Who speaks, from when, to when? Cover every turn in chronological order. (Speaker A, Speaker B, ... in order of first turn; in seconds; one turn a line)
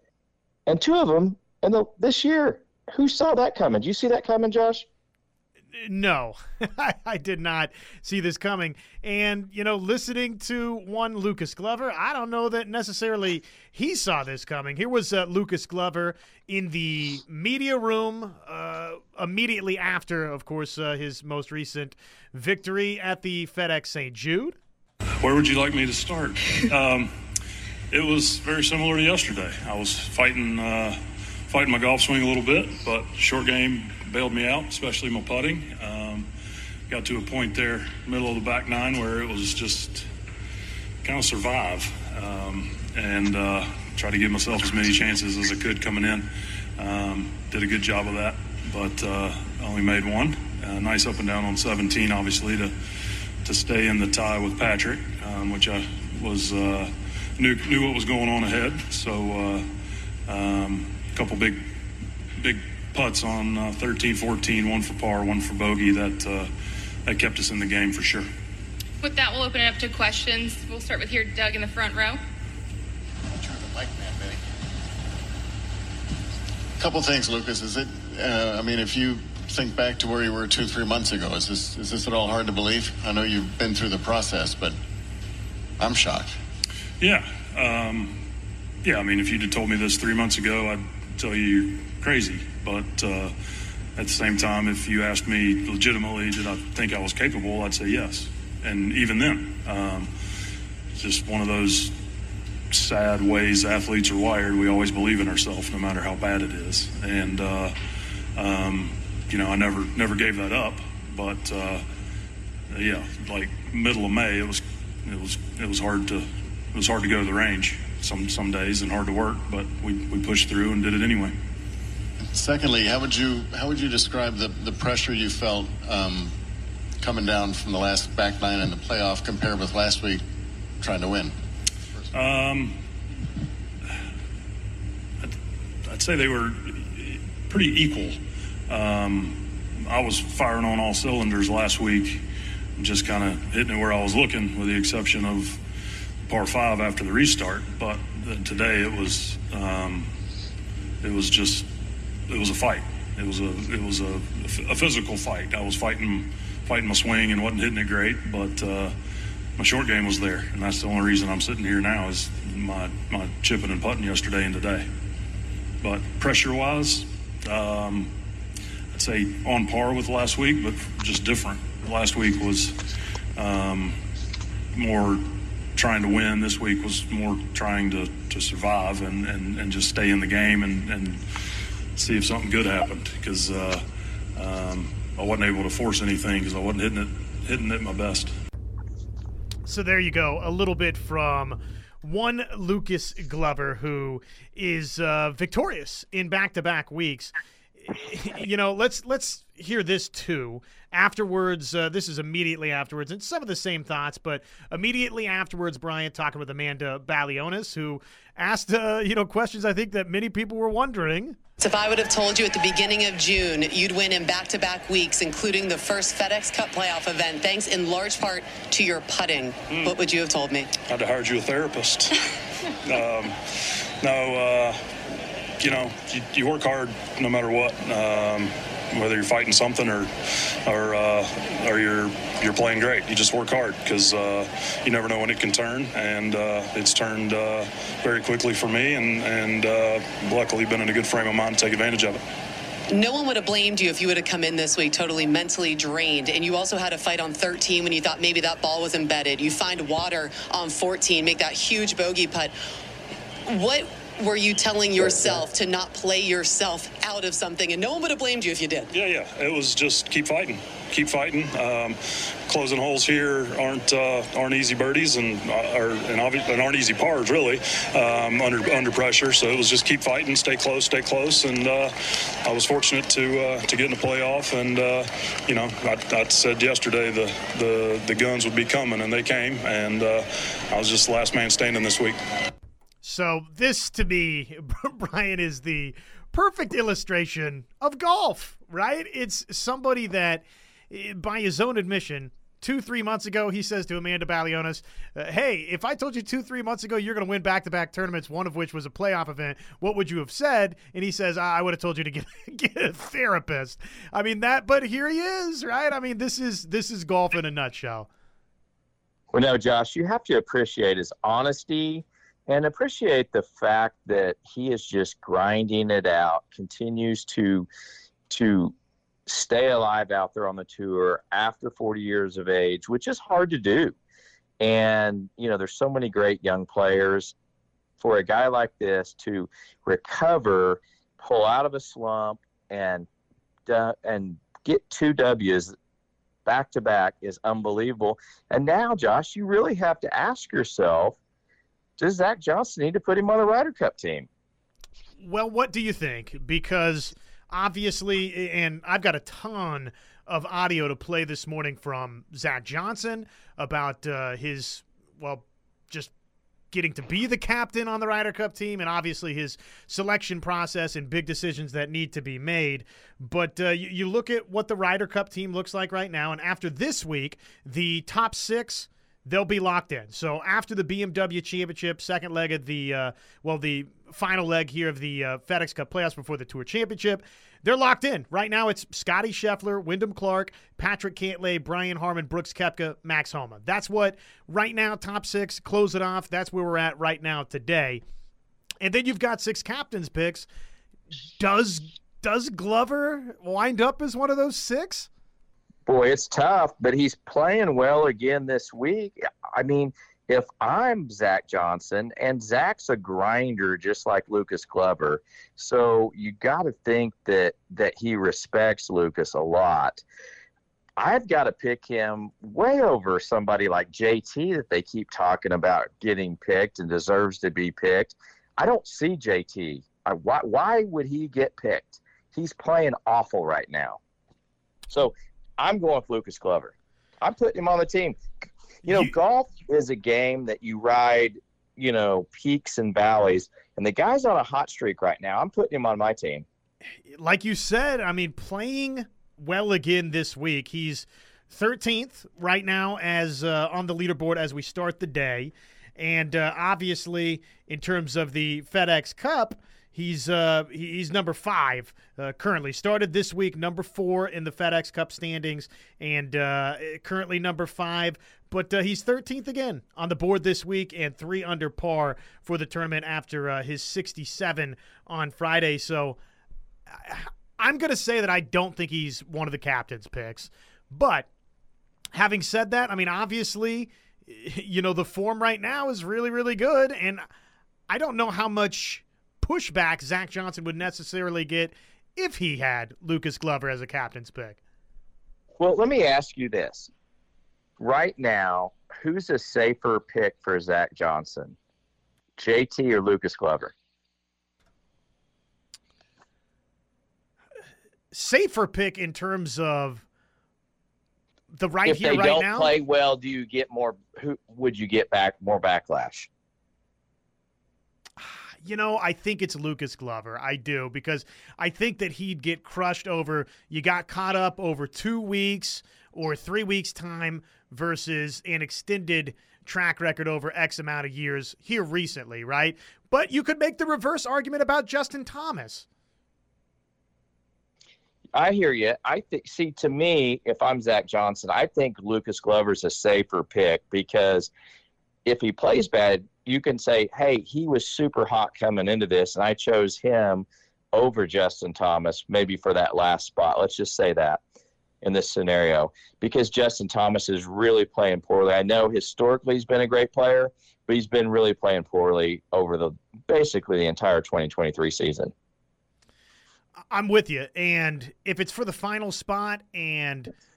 Speaker A: 0.7-4.8
Speaker B: 5.8-24.6
Speaker C: 25.2-27.1
Speaker C: 27.9-36.3
Speaker C: 36.9-40.1
Speaker C: 41.0-52.7
Speaker C: 53.4-59.7
Speaker C: 60.2-61.7
Speaker C: 62.4-66.5
Speaker C: 67.0-68.3
Speaker D: 69.0-72.2
Speaker E: 73.3-74.4
Speaker E: 76.8-84.8
Speaker E: 85.8-86.3
Speaker C: 87.0-88.2
Speaker C: 88.8-93.3
Speaker C: 94.0-100.1
Speaker C: 101.0-102.0
Speaker C: 102.7-107.8
Speaker C: 108.3-111.8
Speaker C: 112.7-121.4
Speaker E: 122.3-126.3
Speaker E: 127.0-130.2
Speaker E: 130.8-131.3
Speaker C: 132.1-132.8
Speaker C: 135.2-138.2
Speaker C: 138.7-142.2
Speaker C: 142.8-145.6
Speaker C: 146.3-150.1
Speaker C: 151.0-151.7
Speaker C: 152.3-158.9
Speaker C: 159.6-164.9
Speaker C: 165.8-168.1
Speaker C: 168.9-172.8
Speaker C: 173.3-174.0
Speaker C: 174.7-181.3
Speaker C: 181.9-188.3
Speaker B: 189.7-197.3
Speaker B: 197.8-211.4
Speaker F: 211.6-220.7
Speaker C: 220.9-222.2
Speaker C: 222.8-223.4
Speaker C: 224.0-224.8
Speaker C: 225.6-230.1
Speaker C: 230.6-242.2
Speaker F: 242.9-252.5
Speaker F: 253.4-258.9
Speaker C: 258.9-282.2
Speaker B: 283.0-308.1
Speaker A: 309.3-317.7
Speaker A: 318.3-318.7
Speaker A: 319.2-323.9
Speaker A: 324.6-327.3
Speaker A: 328.0-333.1
Speaker A: 333.7-335.7
Speaker A: 336.4-341.2
Speaker A: 342.0-344.3
Speaker B: 345.2-356.1
Speaker B: 356.7-388.0
Speaker B: 388.8-390.5
Speaker B: 391.4-395.1
Speaker A: 395.9-410.0
Speaker A: 411.0-424.0
Speaker A: 424.9-428.2
Speaker A: 428.8-436.4
Speaker B: 428.9-429.1
Speaker B: 437.1-466.2
Speaker B: 466.9-471.3
Speaker B: 472.1-477.2
Speaker B: 477.9-484.6
Speaker A: 485.6-486.9
Speaker A: 487.8-491.6
Speaker A: 492.4-493.7
Speaker B: 498.1-500.0
Speaker B: 501.5-502.7
Speaker A: 501.9-506.3
Speaker B: 508.2-525.9
Speaker A: 528.3-534.5
Speaker A: 535.2-544.4
Speaker A: 545.0-555.3
Speaker B: 556.9-560.3